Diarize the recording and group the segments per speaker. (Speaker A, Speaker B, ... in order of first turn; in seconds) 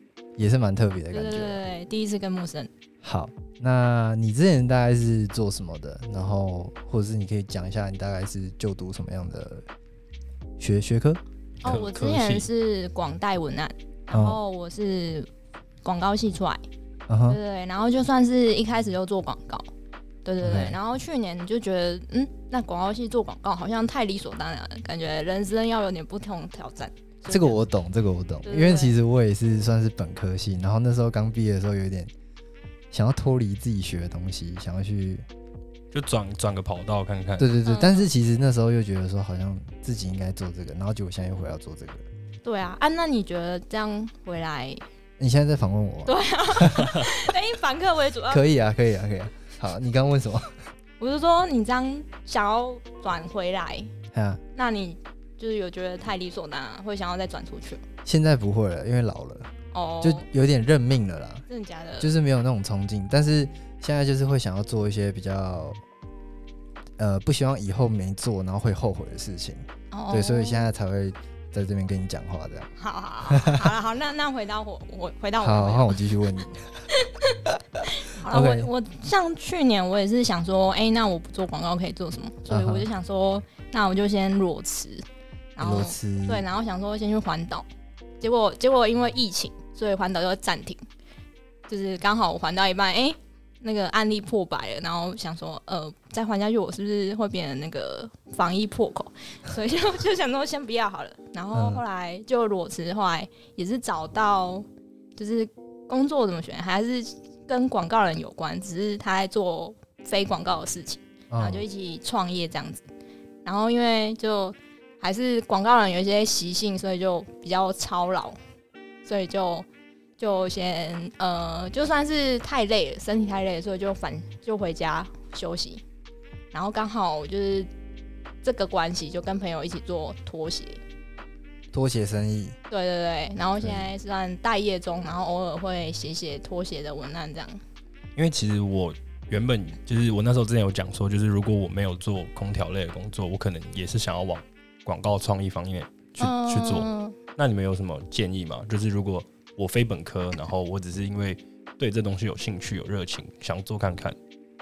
Speaker A: 0.4-1.6, 3.0-9.7, 10.6-11.2, 14.1-14.4, 17.1-17.4, 20.4-20.8, 27.3-32.1, 32.9-35.2, 37.4-42.0, 45.2-47.1, 48.3-50.5, 54.1-54.4, 58.0-59.5, 60.0-61.5, 62.0-65.8, 67.0-72.7, 73.3-73.7, 75.4-76.8, 78.2-78.7, 82.5-82.8, 85.6-86.4, 101.5-101.8, 111.3-111.6, 131.7-132.6, 133.6-133.9
Speaker B: 1.1-2.7, 11.6-15.3, 15.8-16.6, 17.3-19.6, 20.2-27.6, 28.4-28.9, 37.6-38.1, 42.4-44.8, 46.0-48.4, 51.0-53.9, 54.5-57.8, 59.7-60.3, 61.5-62.1, 69.9-70.7, 72.8-76.0, 76.9-85.0, 85.5-87.7, 88.2-90.8, 91.7-104.6, 105.2-112.8, 113.4-118.4, 119.0-119.7, 120.2-125.8, 126.5-127.7, 128.4-130.8, 132.7-137.6, 146.2-147.2
Speaker C: 11.6-12.5, 35.9-37.5, 138.2-154.2